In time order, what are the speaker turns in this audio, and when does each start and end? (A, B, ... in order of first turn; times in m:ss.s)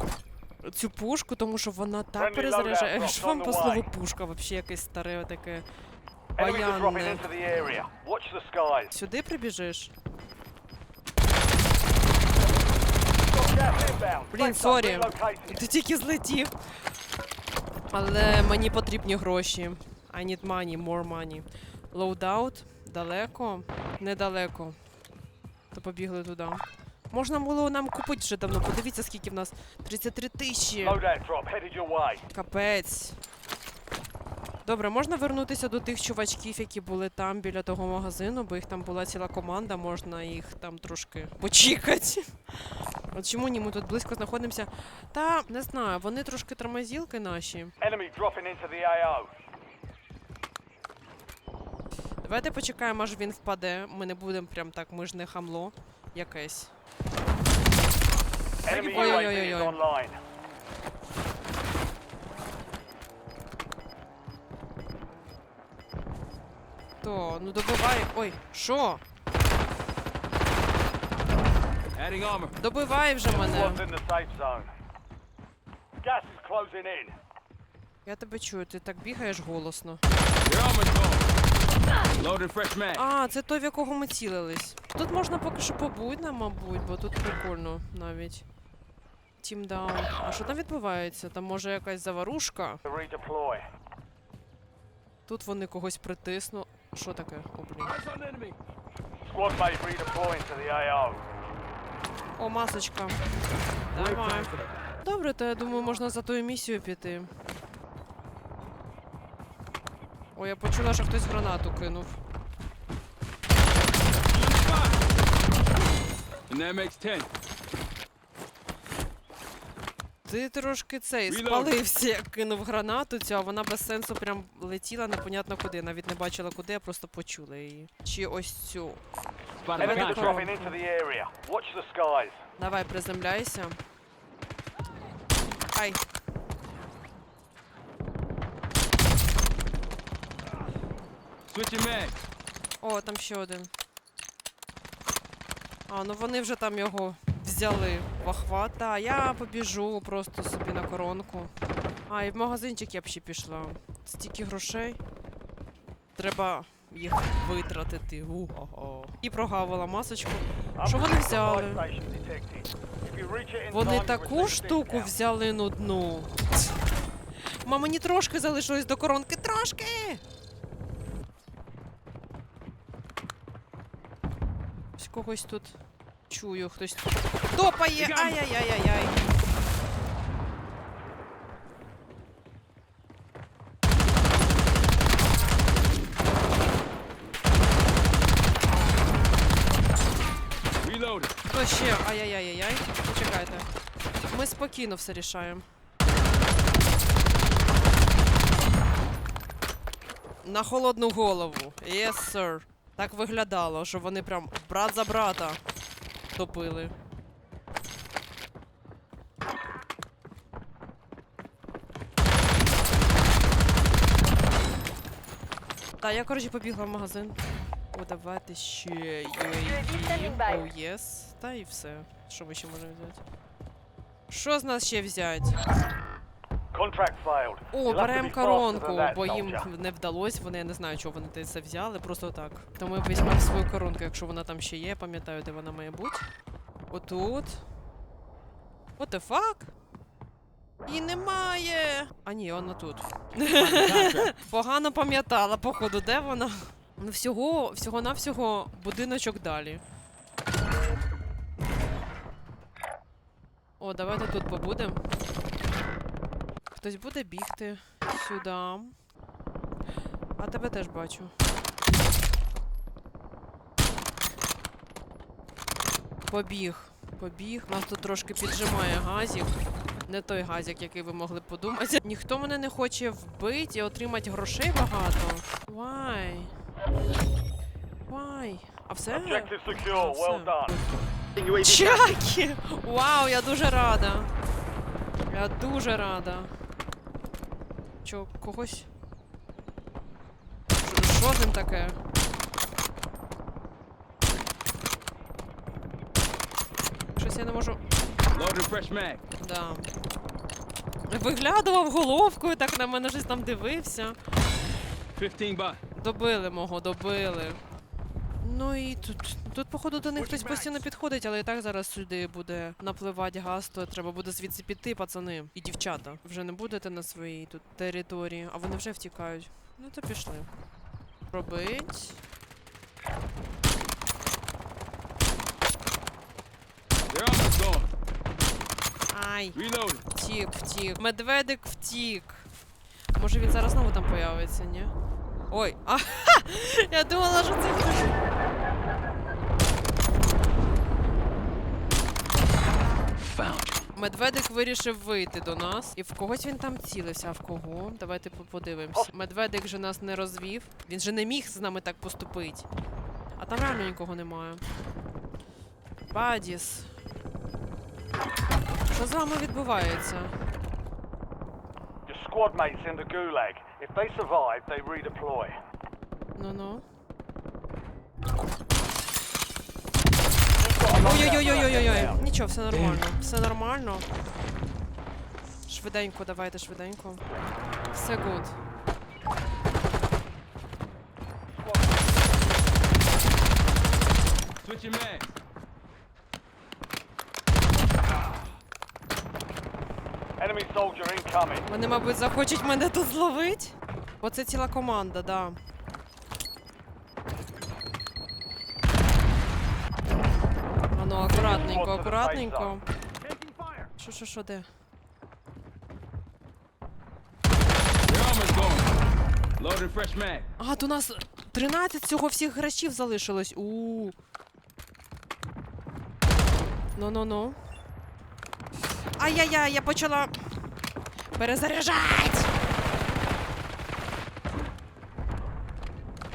0:00.6-0:05.7 A
0:02.2-0:03.9 B
0:06.4-0:08.9 B
0:06.4-0:07.2 A
0:08.9-0:09.9 A
0:13.3-0:15.6 B
0:14.3-0:16.5 A
0:17.9-0:24.8 A
0:25.7-0:31.0 A
0:30.8-0:32.2 B
0:32.3-0:33.2 A
0:34.6-0:47.7 A
0:47.8-0:49.3 B
0:52.2-0:56.7 A
0:58.6-1:00.2 B
0:58.7-0:59.3 C
0:58.7-0:59.8 A
1:07.0-1:09.0 A
1:11.9-1:12.6 C
1:12.6-1:13.8 A
1:13.3-1:14.7 B
1:16.0-1:17.2 B
1:18.1-1:20.0 A
1:20.4-1:21.3 C
1:22.2-1:23.0 C
1:22.9-1:28.4 A
1:29.4-1:32.8 A
1:32.8-1:33.6 B
1:35.3-1:38.0 A
1:37.8-1:38.6 C
1:39.2-1:41.2 B
1:42.4-1:43.2 A
1:43.9-1:47.3 A
1:43.9-1:44.4 C
1:50.4-1:52.2 A
1:54.2-1:55.0 C
1:56.5-1:57.3 C
2:00.2-2:09.0 A
2:01.3-2:01.8 C
2:09.6-2:10.5 C
2:09.8-2:10.8 A
2:09.8-2:12.4 B
2:12.6-2:13.8 A
2:15.7-2:16.0 A
2:21.5-2:22.2 C
2:22.8-2:23.7 A
2:25.9-2:31.5 A
2:32.1-2:35.0 A
2:36.2-2:41.8 A
2:40.8-2:45.1 B
2:43.7-2:46.4 A
2:47.6-2:50.2 A
2:55.0-2:55.8 A
2:56.3-2:59.2 A
2:58.0-2:58.4 C
3:10.8-3:11.3 C
3:11.5-3:13.7 A
3:14.3-3:15.6 A
3:20.4-3:25.6 A
3:26.4-3:26.9 A
3:36.0-3:37.4 A
3:37.9-3:43.2 A
3:44.3-3:45.6 A
3:46.7-3:49.7 B
3:47.7-3:56.2 A
3:56.9-3:57.6 A
3:59.0-3:59.7 A
4:00.9-4:09.8 A
4:03.5-4:04.3 C
4:13.8-4:15.0 A
4:16.7-4:18.9 A
4:20.4-4:21.3 A
4:26.3-4:29.5 A
4:30.1-4:36.5 A
4:38.1-4:40.8 A
4:39.1-4:40.8 B
4:41.4-4:44.3 A
4:45.3-4:46.5 A
4:48.0-4:48.9 A
4:50.8-4:52.0 A
4:57.2-4:57.8 A
4:58.3-4:59.2 C
4:59.4-4:59.9 A
5:01.1-5:04.2 A
5:05.2-5:05.8 C
5:06.0-5:07.6 A
5:08.4-5:20.5 A
5:10.1-5:10.8 C
5:21.3-5:22.2 A
5:27.1-5:27.9 C
5:29.1-5:29.6 A
5:29.6-5:30.0 C
5:30.1-5:32.5 A
5:33.1-5:34.9 A
5:35.5-5:38.1 A
5:43.2-5:43.9 C
5:44.0-5:52.7 A
5:53.4-5:54.6 A
5:56.1-5:56.9 A
5:58.9-6:00.4 A
6:02.1-6:05.6 B
6:06.4-6:06.8 A
6:10.6-6:12.3 B
6:11.0-6:14.1 A
6:15.7-6:17.2 A
6:17.9-6:18.6 A
6:21.5-6:22.4 B
6:24.6-6:25.3 C
6:30.4-6:31.7 B
6:31.7-6:35.6 A
6:40.9-6:42.8 A
6:41.3-6:42.8 B
6:43.3-6:43.8 C
6:44.0-6:44.7 A
6:48.0-6:48.9 C
6:49.6-6:50.5 C
6:50.6-6:54.1 A
6:57.0-6:57.6 A
6:59.2-7:00.3 A
7:01.4-7:02.5 A